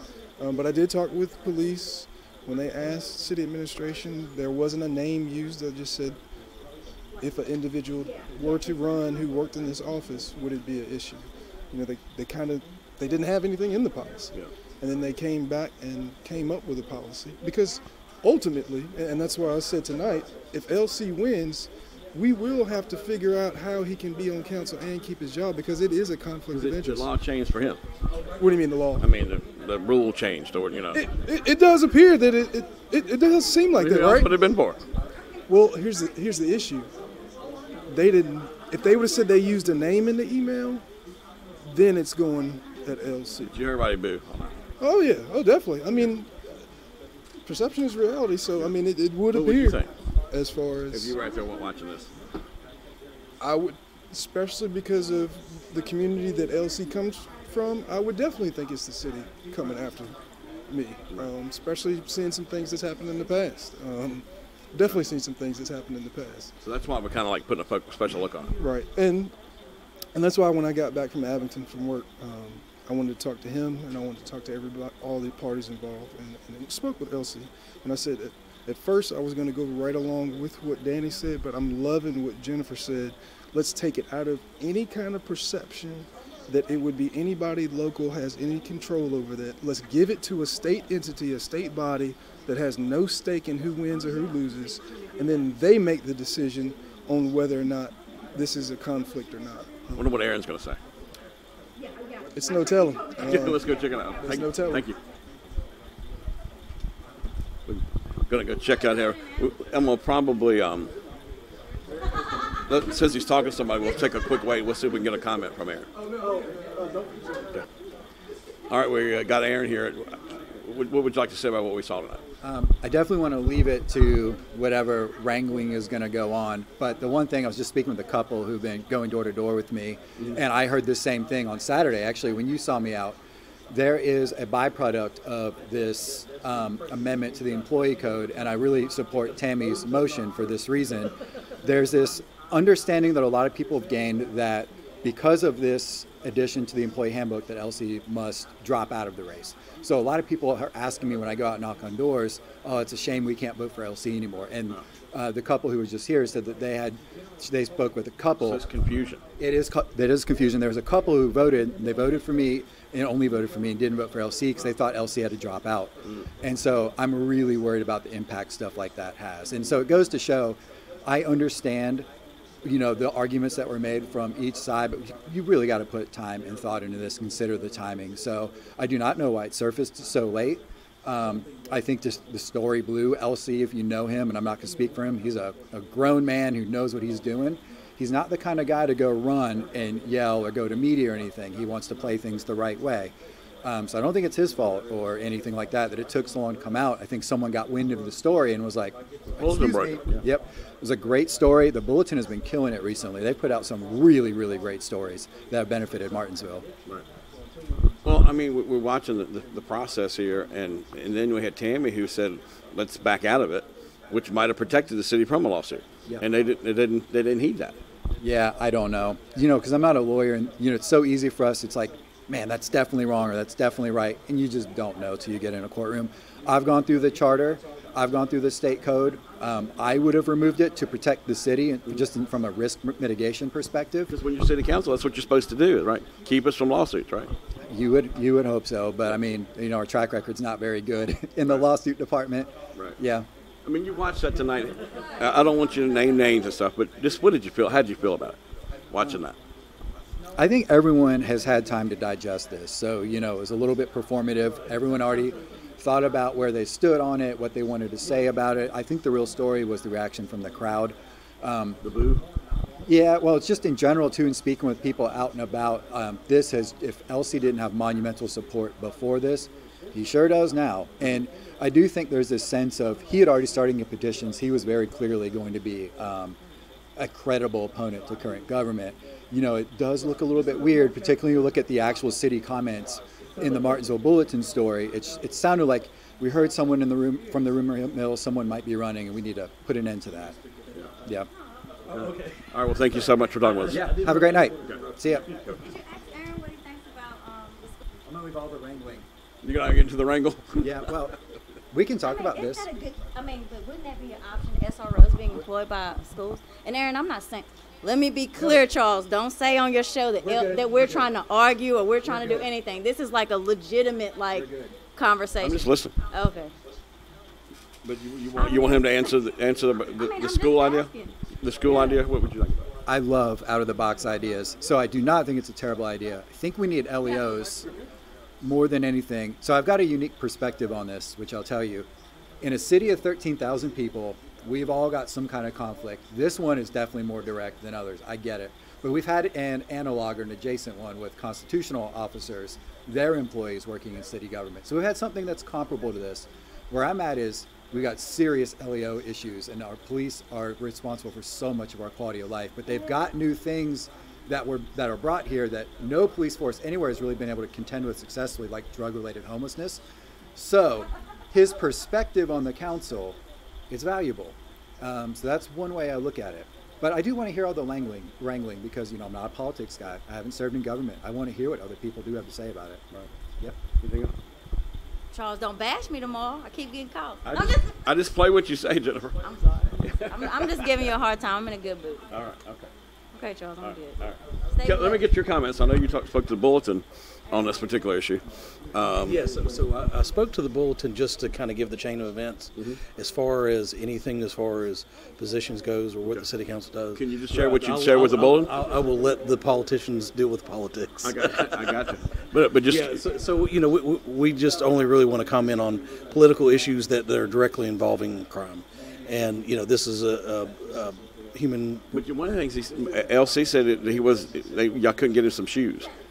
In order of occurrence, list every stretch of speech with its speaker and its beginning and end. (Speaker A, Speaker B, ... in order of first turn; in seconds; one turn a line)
Speaker A: 0.4-6.2
Speaker A: 7.2-27.1
Speaker B: 26.5-27.8
Speaker A: 28.4-29.1
Speaker B: 29.0-31.0
Speaker A: 30.9-34.4
Speaker B: 33.7-34.8
Speaker A: 35.5-36.9
Speaker A: 37.9-40.8
Speaker A: 41.7-43.5
Speaker B: 43.4-44.5
Speaker A: 44.8-46.3
Speaker A: 47.4-51.1
Speaker B: 49.3-49.9
Speaker B: 50.9-52.1
Speaker A: 53.4-66.5
Speaker B: 66.6-68.5
Speaker A: 68.5-69.3
Speaker A: 70.1-100.1
Speaker B: 100.0-100.8
Speaker A: 102.3-104.8
Speaker B: 103.2-105.0
Speaker B: 107.7-110.9
Speaker B: 112.7-115.9
Speaker B: 118.7-122.2
Speaker C: 122.4-133.2
Speaker C: 133.7-158.7
Speaker B: 158.4-159.2
Speaker C: 159.4-172.1
Speaker C: 172.6-206.6
Speaker B: 199.4-200.2
Speaker B: 208.0-217.8
Speaker C: 218.2-234.1
Speaker B: 234.1-237.3
Speaker C: 237.7-243.3
Speaker B: 243.6-248.4
Speaker B: 248.9-249.3
Speaker C: 250.4-261.8
Speaker B: 261.9-262.2
Speaker C: 262.9-276.4
Speaker C: 277.0-290.4
Speaker C: 291.0-291.3
Speaker B: 291.9-295.6
Speaker D: 291.9-292.4
Speaker C: 293.7-295.3
Speaker D: 293.9-294.2
Speaker E: 295.6-297.8
Speaker C: 298.1-299.0
Speaker B: 299.4-301.1
Speaker C: 300.6-301.1
Speaker C: 301.7-302.7
Speaker E: 302.0-316.5
Speaker C: 310.2-310.8
Speaker C: 314.4-314.7
Speaker B: 315.4-315.9
Speaker B: 317.8-322.6
Speaker E: 318.4-319.1
Speaker E: 319.9-322.0
Speaker C: 322.9-327.7
Speaker E: 327.0-327.3
Speaker C: 328.4-331.9
Speaker C: 332.4-359.8
Speaker C: 360.4-363.2
Speaker C: 363.7-372.8
Speaker B: 373.8-374.1
Speaker E: 375.1-377.7
Speaker B: 377.2-379.1
Speaker E: 379.2-382.0
Speaker B: 379.8-380.7
Speaker B: 382.1-382.7
Speaker E: 383.1-384.0
Speaker B: 383.6-389.2
Speaker E: 384.5-385.0
Speaker D: 389.0-412.0
Speaker B: 396.0-396.3
Speaker B: 396.9-398.5
Speaker B: 401.0-403.0
Speaker B: 411.9-415.9